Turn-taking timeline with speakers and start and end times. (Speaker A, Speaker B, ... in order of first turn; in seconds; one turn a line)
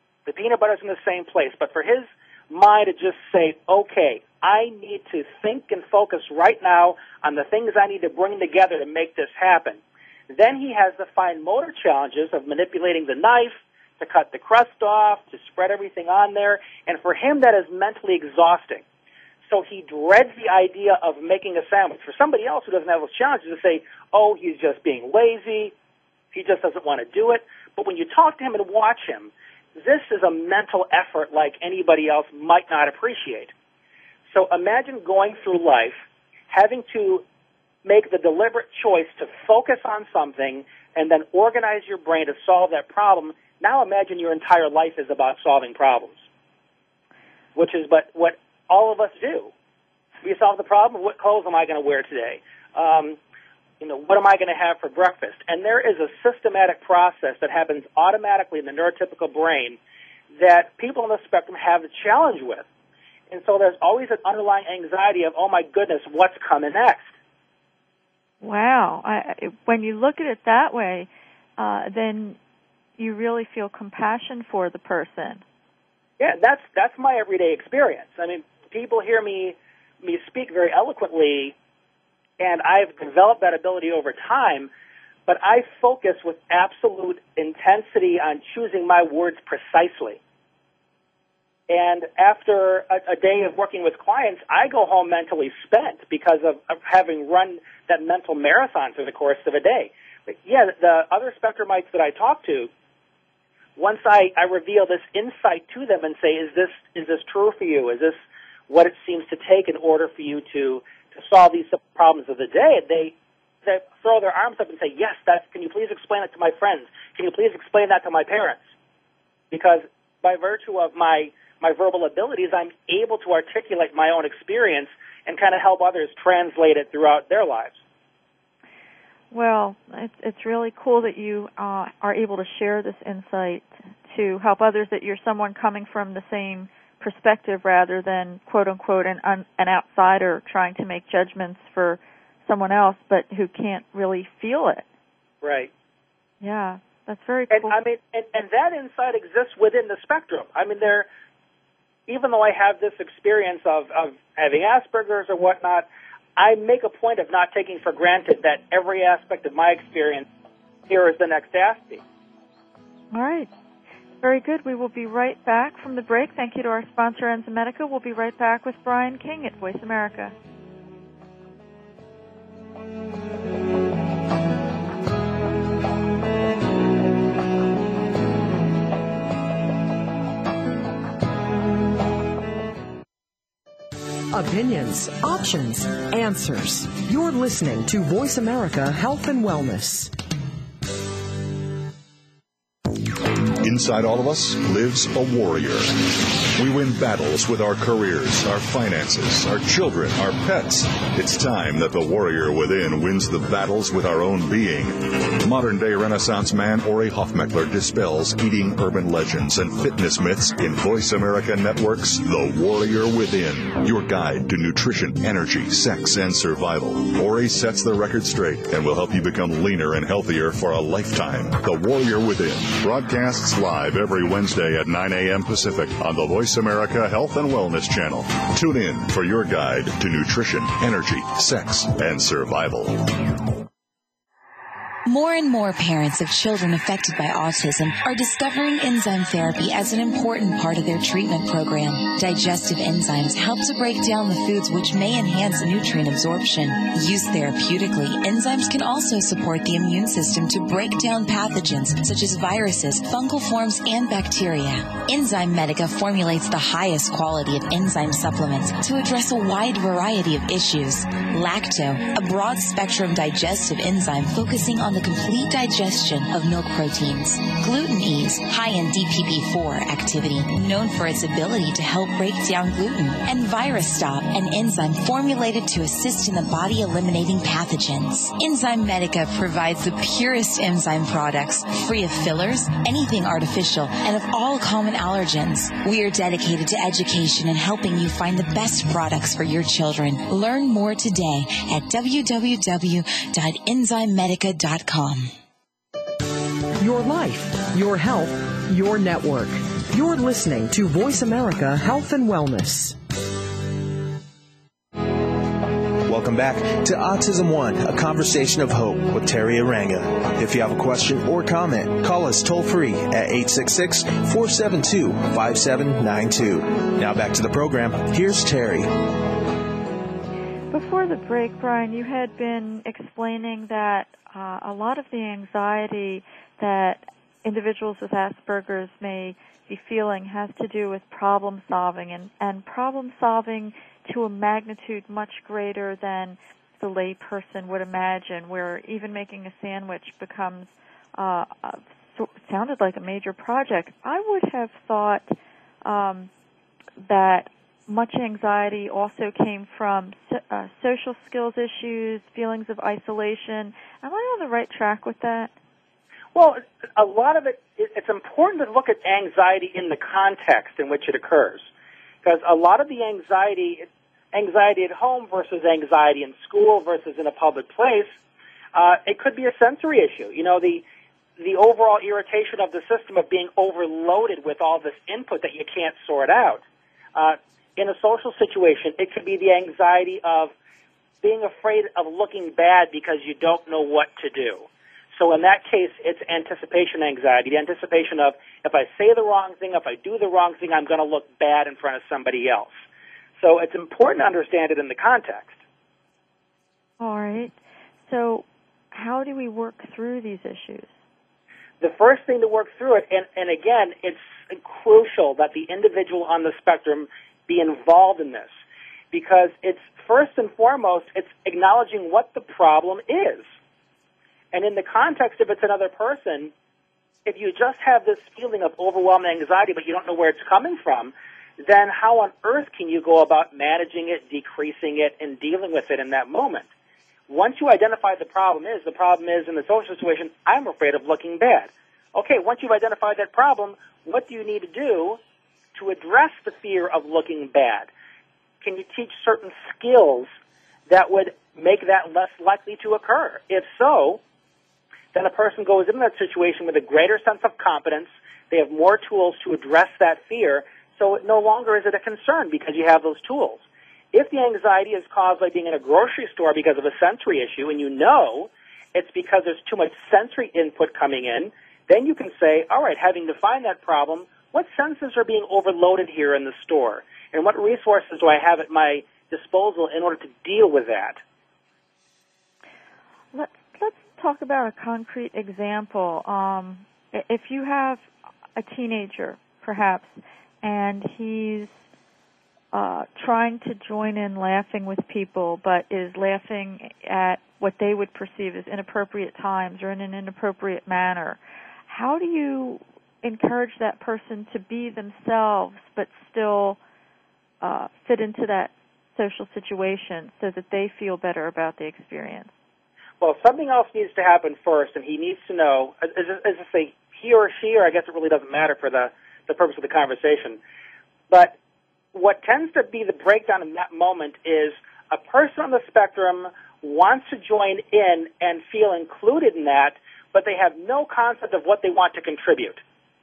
Speaker A: 0.3-18.8
Speaker A: 19.5-25.7
Speaker A: 26.3-33.5
Speaker A: 34.3-36.0
Speaker A: 36.5-37.2
Speaker A: 37.9-46.2
Speaker A: 47.5-49.5
Speaker A: 50.2-53.2
Speaker A: 53.8-59.8
Speaker A: 60.4-62.6
Speaker A: 63.3-67.1
Speaker B: 68.4-72.4
Speaker B: 73.0-75.4
Speaker A: 76.2-81.5
Speaker A: 82.4-84.7
Speaker A: 85.3-90.2
Speaker A: 91.7-102.7
Speaker A: 103.8-118.6
Speaker A: 119.5-127.8
Speaker B: 129.3-144.8
Speaker A: 145.4-145.7
Speaker B: 146.4-147.8
Speaker A: 147.5-151.1
Speaker A: 152.1-160.3
Speaker A: 160.9-162.0
Speaker B: 163.1-163.5
Speaker B: 164.2-170.3
Speaker C: 184.3-190.1
Speaker D: 193.6-233.4
Speaker E: 235.1-295.3
Speaker C: 296.8-303.0
Speaker F: 306.1-318.9
Speaker B: 320.7-346.3
Speaker B: 347.0-355.5
Speaker A: 356.4-361.7
Speaker A: 362.2-368.1
Speaker A: 368.8-370.8
Speaker A: 371.4-376.6
Speaker A: 377.1-380.5
Speaker A: 381.2-392.7
Speaker A: 393.4-395.6
Speaker B: 397.0-397.6
Speaker B: 398.1-400.9
Speaker A: 401.8-408.5
Speaker A: 409.1-413.5
Speaker A: 414.5-416.5
Speaker A: 417.3-421.1
Speaker A: 421.6-426.7
Speaker A: 427.3-435.2
Speaker A: 435.8-437.9
Speaker A: 438.6-440.3
Speaker A: 440.9-444.2
Speaker A: 445.1-471.2
Speaker B: 473.3-481.8
Speaker B: 482.7-496.8
Speaker B: 497.6-502.5
Speaker A: 503.2-510.6
Speaker A: 511.3-511.6
Speaker A: 512.1-522.8